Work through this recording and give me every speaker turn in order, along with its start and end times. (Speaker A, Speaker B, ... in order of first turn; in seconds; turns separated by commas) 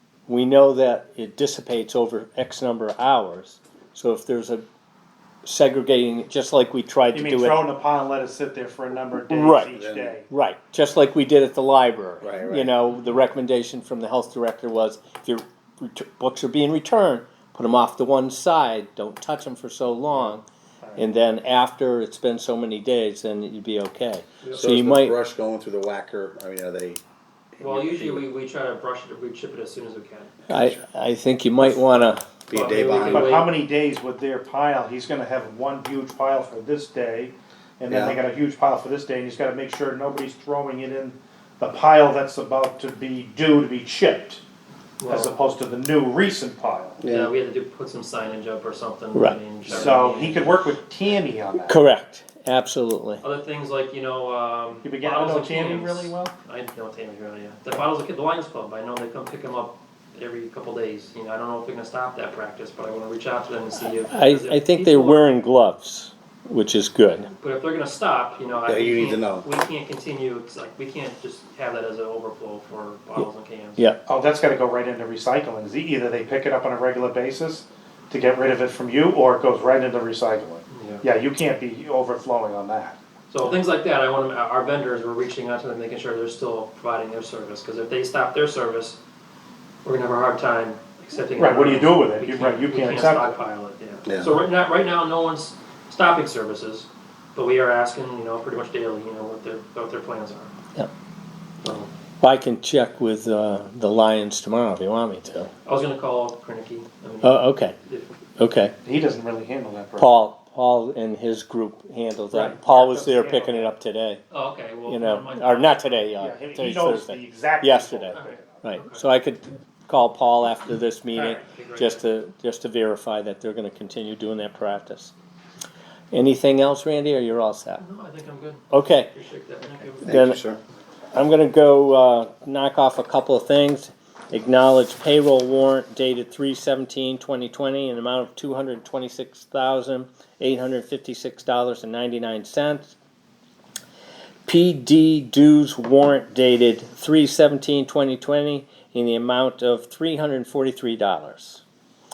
Speaker A: 0.3-4.6, Speaker A: 5.4-7.7, Speaker B: 7.1-10.3, Speaker A: 9.3-9.8, Speaker C: 9.7-10.1, Speaker A: 10.3-20.4, Speaker C: 12.2-12.7, Speaker A: 20.9-25.1, Speaker C: 24.5-27.0, Speaker C: 27.6-28.2, Speaker D: 27.6-30.4, Speaker A: 30.5-32.2, Speaker C: 32.5-33.5, Speaker D: 32.5-33.6, Speaker B: 33.0-44.4, Speaker C: 37.9-38.2, Speaker D: 45.0-45.3, Speaker B: 45.1-47.0, Speaker C: 47.0-47.3, Speaker D: 47.1-50.6, Speaker A: 49.1-49.4, Speaker B: 49.7-51.8, Speaker A: 51.7-53.2, Speaker D: 53.2-65.2, Speaker B: 54.8-56.3, Speaker A: 64.1-67.3, Speaker D: 67.3-73.8, Speaker C: 68.7-69.5, Speaker B: 74.1-83.0, Speaker D: 80.7-81.0, Speaker D: 83.3-89.0, Speaker D: 89.8-100.5, Speaker B: 91.4-93.3, Speaker C: 94.0-94.3, Speaker D: 101.6-101.9, Speaker A: 102.2-105.5, Speaker D: 105.6-108.1, Speaker A: 107.2-107.7, Speaker A: 108.4-108.7, Speaker B: 108.8-110.1, Speaker A: 110.0-114.2, Speaker B: 112.3-113.7, Speaker D: 114.3-116.0, Speaker A: 114.9-125.1, Speaker B: 116.2-118.6, Speaker D: 118.1-119.0, Speaker D: 121.3-122.0, Speaker A: 126.1-127.8, Speaker D: 127.8-130.3, Speaker A: 128.7-129.1, Speaker A: 130.0-130.4, Speaker C: 130.1-130.6, Speaker A: 131.1-142.9, Speaker A: 144.4-151.6